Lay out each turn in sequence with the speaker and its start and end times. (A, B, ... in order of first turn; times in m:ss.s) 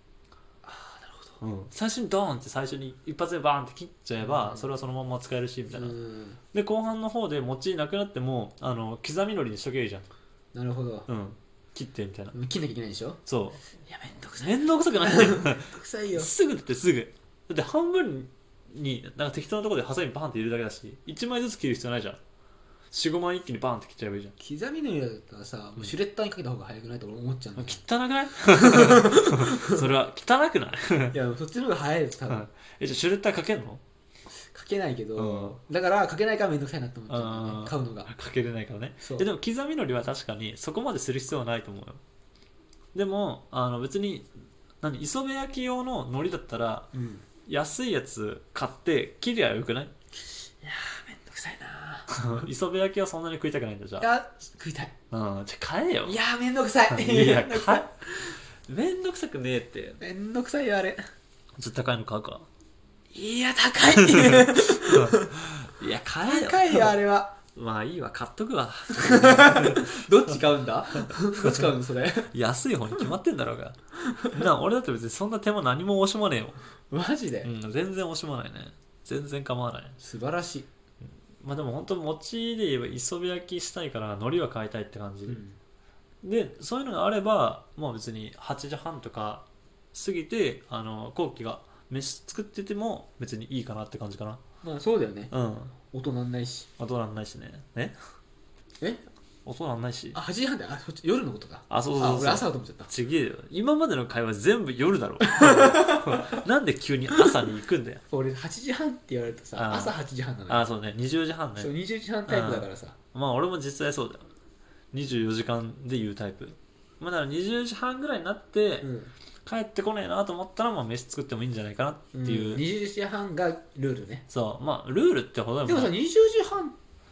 0:00.6-0:01.4 A
0:01.4-0:06.0 B
0:04.2-0:04.7 A
0:05.7-0:06.4 A
0:06.5-0:10.1 B
0:10.5-0:11.1 A
0:11.1-0:12.4 B
0:12.3-0:13.2 A
0:13.2-0:13.6 B
0:13.7-0:16.3 A
0:14.4-0:22.2 B
0:22.9-0:24.3 B
0:24.4-0:27.8 A
0:27.6-0:31.2 B
0:28.5-0:29.8 A
0:31.1-0:32.5 A
0:32.3-0:33.8 B
0:34.5-0:38.1 A
0:35.2-0:35.6 B
0:37.1-0:42.0 B
0:39.0-0:39.3 A
0:42.9-0:44.3 B
0:44.8-0:46.9 B
0:46.9-0:47.2 A
0:47.4-0:49.9 B
0:50.6-0:52.2 A
0:52.1-0:54.1 B
0:54.0-0:54.9 A
0:55.1-0:56.2 B
0:56.0-0:58.4 A
0:56.9-0:58.0 B
0:58.7-1:00.0 B
1:00.0-1:01.0 A
1:01.6-1:02.5 B
1:03.1-1:05.5 A
1:03.9-1:07.0 B
1:06.2-1:07.4 A
1:07.5-1:10.4 B
1:08.9-1:12.3 A
1:10.9-1:11.8 B
1:12.3-1:13.8 B
1:14.1-1:14.4 A
1:14.3-1:16.6 B
1:16.9-1:17.5 A
1:17.4-1:20.0 B
1:20.0-1:20.7 A
1:21.4-1:25.4 B
1:25.3-1:25.6 A
1:26.2-1:34.4 B
1:34.6-1:35.3 A
1:35.3-1:35.7 B
1:35.9-1:36.7 A
1:36.8-1:38.0 B
1:39.4-1:40.2 B
1:40.1-1:42.9 A
1:41.7-1:48.0 B
1:45.2-1:46.4 A
1:48.1-1:50.7 A
1:49.6-1:49.9 B
1:50.5-1:51.7 B
1:51.6-1:53.0 A
1:52.3-1:54.3 B
1:54.9-1:58.9 B
1:58.8-1:59.1 A
1:59.4-2:02.6 B
2:02.1-2:04.2 A
2:04.3-2:05.9 B
2:05.6-2:06.7 A